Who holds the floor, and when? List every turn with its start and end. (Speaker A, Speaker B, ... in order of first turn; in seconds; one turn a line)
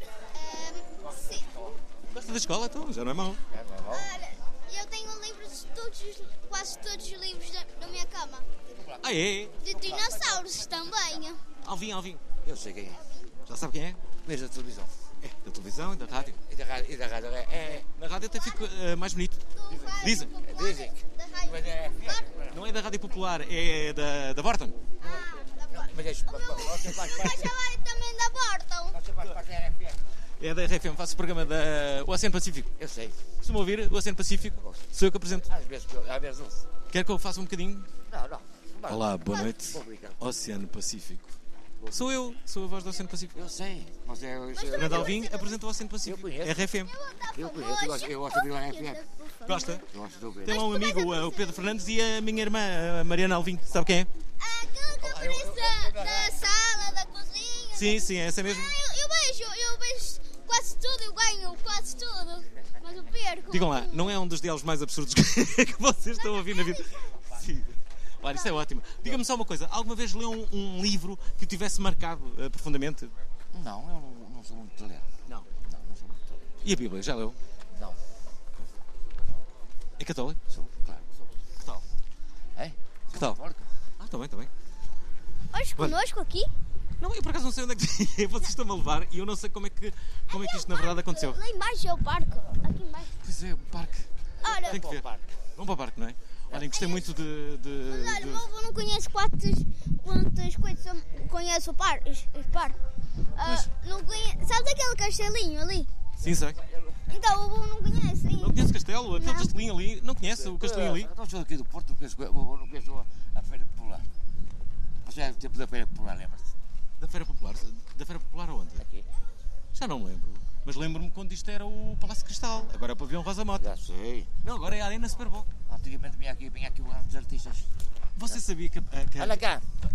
Speaker A: 0.3-1.5
Speaker B: 1.0-1.8
Speaker C: 2.1-3.4
Speaker B: 3.5-4.1
Speaker A: 3.9-8.5
Speaker B: 8.7-11.2
Speaker C: 9.0-9.6
Speaker A: 9.6-11.4
Speaker C: 11.6-12.2
Speaker B: 12.4-13.1
Speaker C: 13.5-14.0
Speaker B: 14.2-15.1
Speaker C: 15.2-16.4
Speaker B: 16.1-17.9
Speaker C: 17.8-20.3
Speaker A: 18.4-18.6
Speaker A: 19.5-22.3
Speaker B: 19.7-22.6
Speaker C: 22.5-24.8
Speaker A: 25.0-29.0
Speaker B: 25.0-27.6
Speaker B: 28.9-30.1
Speaker C: 30.4-32.7
Speaker B: 32.8-33.2
Speaker C: 33.4-35.5
Speaker B: 34.6-36.7
Speaker C: 36.9-37.9
Speaker B: 38.1-40.2
Speaker C: 38.9-41.4
Speaker B: 41.8-42.1
Speaker C: 41.9-43.4
Speaker B: 43.4-45.3
Speaker A: 44.5-45.6
Speaker C: 44.8-46.9
Speaker B: 46.0-46.7
Speaker A: 46.8-49.8
Speaker B: 47.4-49.0
Speaker C: 49.5-49.9
Speaker B: 49.9-50.6
Speaker C: 50.5-54.1
Speaker A: 50.5-51.7
Speaker A: 54.4-64.2
Speaker B: 55.0-56.5
Speaker C: 57.7-58.8
Speaker C: 63.5-73.1
Speaker A: 66.1-66.8
Speaker B: 73.5-76.6
Speaker C: 76.6-77.4
Speaker B: 77.7-78.0
Speaker C: 80.0-80.4
Speaker B: 80.5-81.8
Speaker B: 82.6-83.7
Speaker C: 84.0-84.5
Speaker A: 85.5-86.5
Speaker C: 87.0-91.4
Speaker A: 90.3-93.1
Speaker C: 93.2-94.1
Speaker B: 94.4-95.3
Speaker A: 94.4-94.8
Speaker C: 94.6-95.1
Speaker C: 95.6-98.5
Speaker A: 96.7-97.1
Speaker A: 97.8-102.8
Speaker A: 103.4-105.9
Speaker C: 103.4-103.7
Speaker C: 106.2-106.6
Speaker B: 106.3-107.2
Speaker A: 107.1-109.5
Speaker C: 108.4-111.1
Speaker B: 110.3-114.1
Speaker B: 115.0-116.5
Speaker C: 117.0-118.9
Speaker B: 118.8-119.1
Speaker C: 119.8-123.8
Speaker B: 123.5-124.3
Speaker C: 124.4-125.5
Speaker B: 125.7-127.7
Speaker C: 128.2-129.4
Speaker B: 129.2-129.6